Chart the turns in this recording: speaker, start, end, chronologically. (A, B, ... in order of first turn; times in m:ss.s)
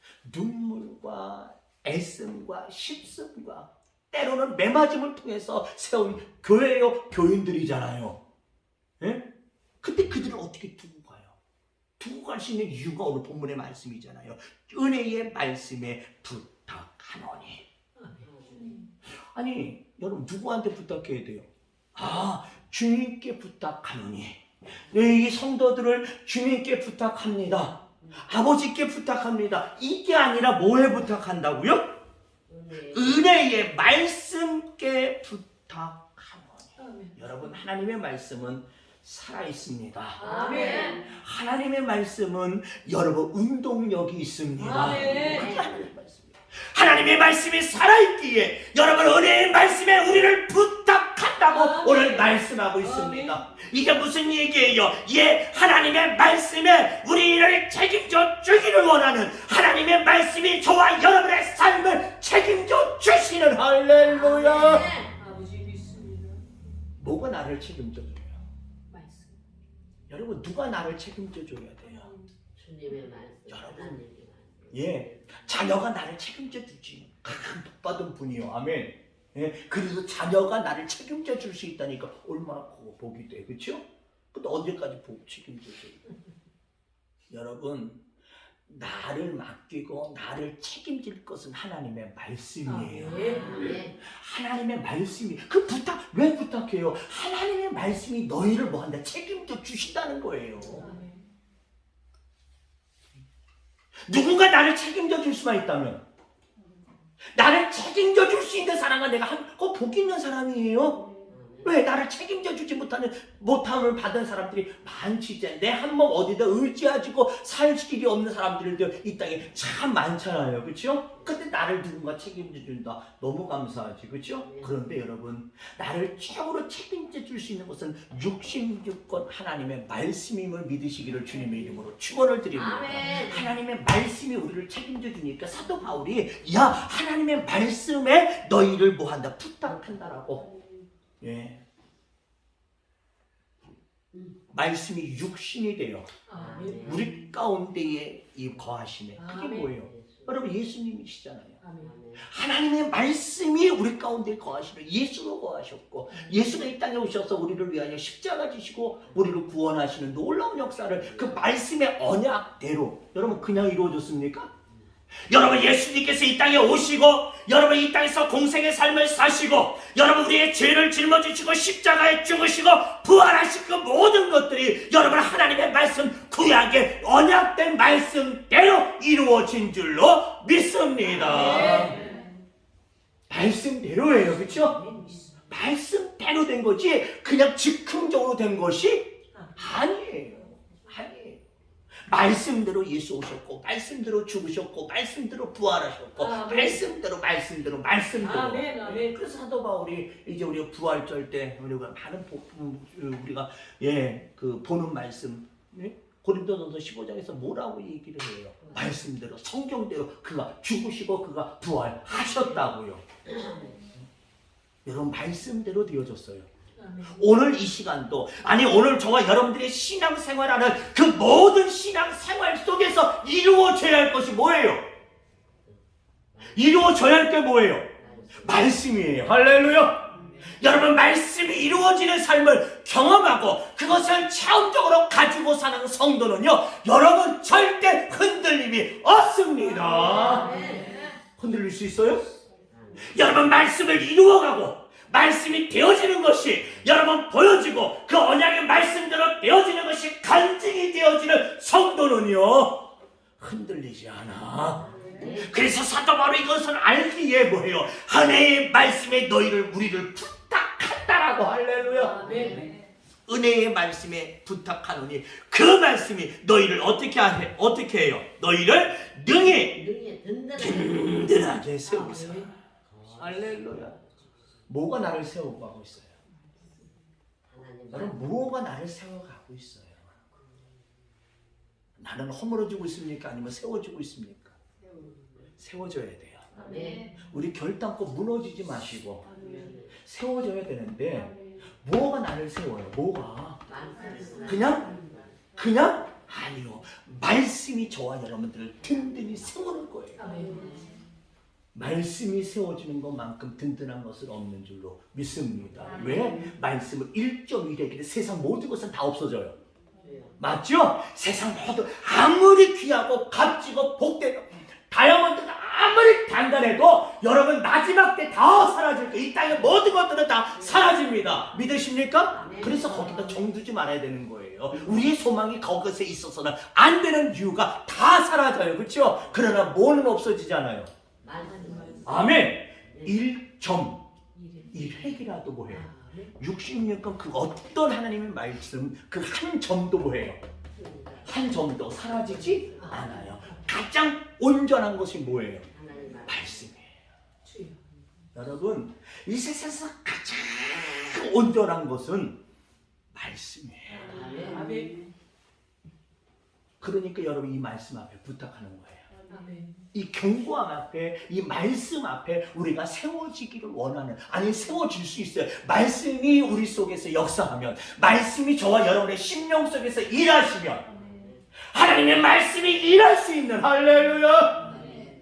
0:00.2-0:08.2 A
0:09.0-0:09.3 A
0:09.8-0:11.4 A
0:12.0-0:17.6 A
0:18.0-0:18.8 B
0:18.2-0:18.8 C
0:19.3-0:32.0 A
0:32.5-0:33.4 C
0:32.8-1:04.9 A
0:36.8-0:37.1 B
0:40.2-0:41.0 B
0:40.2-0:41.0 C
0:44.6-0:45.4 B
0:45.0-0:45.7 C
0:51.4-0:52.3 B
0:53.0-0:53.4 B
1:03.9-1:05.2 C
1:05.2-1:06.4 B
1:07.0-1:08.4 A
1:08.9-1:09.3 B
1:10.1-1:12.1 A
1:12.6-1:15.4 C
1:13.5-1:14.0 A
1:14.7-1:26.0 A
1:27.3-1:28.0 A
1:28.6-1:40.9 A
1:32.7-1:33.8 B
1:33.1-1:33.9 C
1:40.8-1:41.2 B
1:44.1-1:46.0 A
1:47.3-2:20.5 A
1:51.3-1:51.7 C
2:04.4-2:04.7 C
2:12.5-2:13.6 C
2:21.2-2:21.6 A
2:24.1-2:24.4 C
2:24.5-2:26.1 A
2:26.3-2:27.1 B
2:26.4-2:27.0 C
2:26.6-2:31.6 A
2:29.2-2:29.6 B
2:29.8-2:30.4 C
2:31.6-2:31.9 B
2:31.8-2:32.2 C
2:32.2-2:44.5 A
2:45.2-3:02.0 A
3:01.3-3:02.3 B
3:03.3-3:04.8 A
3:05.5-3:11.4 A
3:12.1-3:33.1 A
3:16.2-3:16.8 B
3:18.2-3:19.1 B
3:28.6-3:28.9 C
3:33.3-3:33.8 C
3:34.8-3:36.5 A
3:36.8-3:37.2 B
3:37.0-3:44.9 A
3:46.3-3:46.8 C
3:46.4-4:00.5 A
3:48.0-3:49.0 C
4:00.0-4:01.0 C
4:01.4-4:02.2 A
4:02.7-4:03.2 C
4:03.0-4:22.5 A
4:14.9-4:15.5 C
4:22.0-4:22.7 C
4:22.0-4:22.8 B
4:23.3-4:29.9 A
4:29.6-4:31.4 C
4:30.6-4:32.5 A
4:32.0-4:34.2 C
4:32.1-4:32.4 B
4:33.2-4:34.0 A
4:34.7-4:36.2 A
4:37.5-4:38.4 C
4:37.9-4:40.2 A
4:42.0-4:44.6 A
4:44.9-4:45.5 C
4:45.6-4:49.4 A
4:46.6-4:47.2 C
4:49.4-4:49.9 C
4:50.0-4:53.7 A
4:53.7-4:55.4 C
4:54.4-4:54.9 A
4:55.5-5:00.4 A
5:00.2-5:00.7 B
5:01.7-5:09.5 A
5:10.0-5:10.4 C
5:10.4-5:30.9 A
5:22.3-5:23.4 C
5:31.2-5:32.1 C
5:31.6-5:32.1 B
5:32.0-5:34.0 A
5:34.4-5:34.7 B
5:34.6-5:40.4 A
5:35.8-5:36.3 B
5:40.8-5:41.3 C
5:41.2-5:45.7 A
5:45.8-5:46.6 C
5:46.2-5:46.9 A
5:47.4-5:47.8 B
5:48.3-5:52.4 A
5:53.1-5:54.4 A
5:54.0-5:54.8 C
5:54.4-5:55.1 B
5:56.8-5:59.1 A
5:59.3-5:59.8 B
5:59.9-6:10.9 A
6:10.9-6:11.4 C
6:11.6-6:14.8 A